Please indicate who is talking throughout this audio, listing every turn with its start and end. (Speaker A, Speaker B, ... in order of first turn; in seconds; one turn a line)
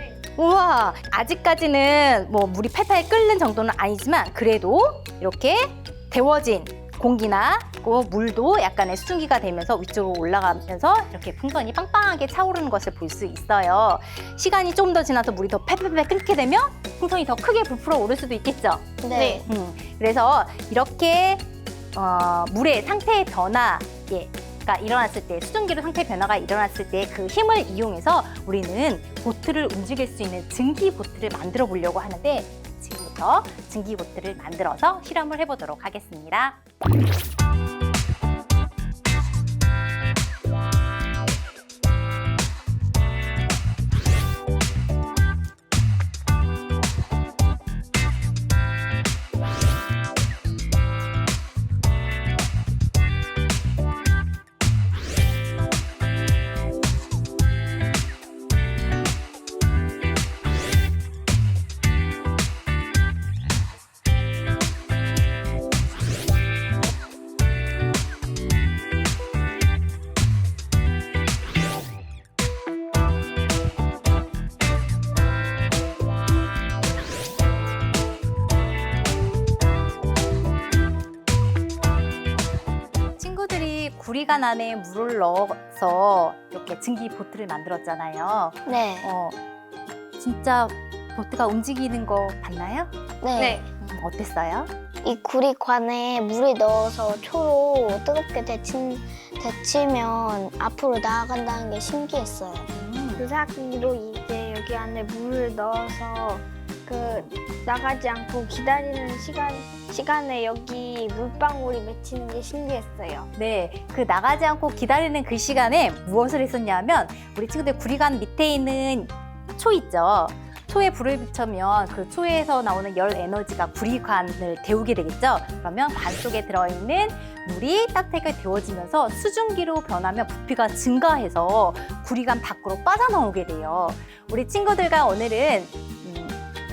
Speaker A: 0.3-36.6
Speaker B: 19.0-19.4
Speaker C: 19.1-19.4
Speaker A: 83.2-89.4
Speaker B: 88.7-89.1
Speaker A: 90.2-92.9
Speaker B: 93.2-93.6
Speaker C: 93.4-93.7
Speaker A: 93.7-94.7
Speaker B: 95.0-102.7
Speaker A: 102.7-103.2
Speaker C: 103.3-103.6
Speaker C: 104.2-106.4
Speaker A: 107.0-107.3
Speaker C: 107.7-112.7
Speaker A: 113.3-136.4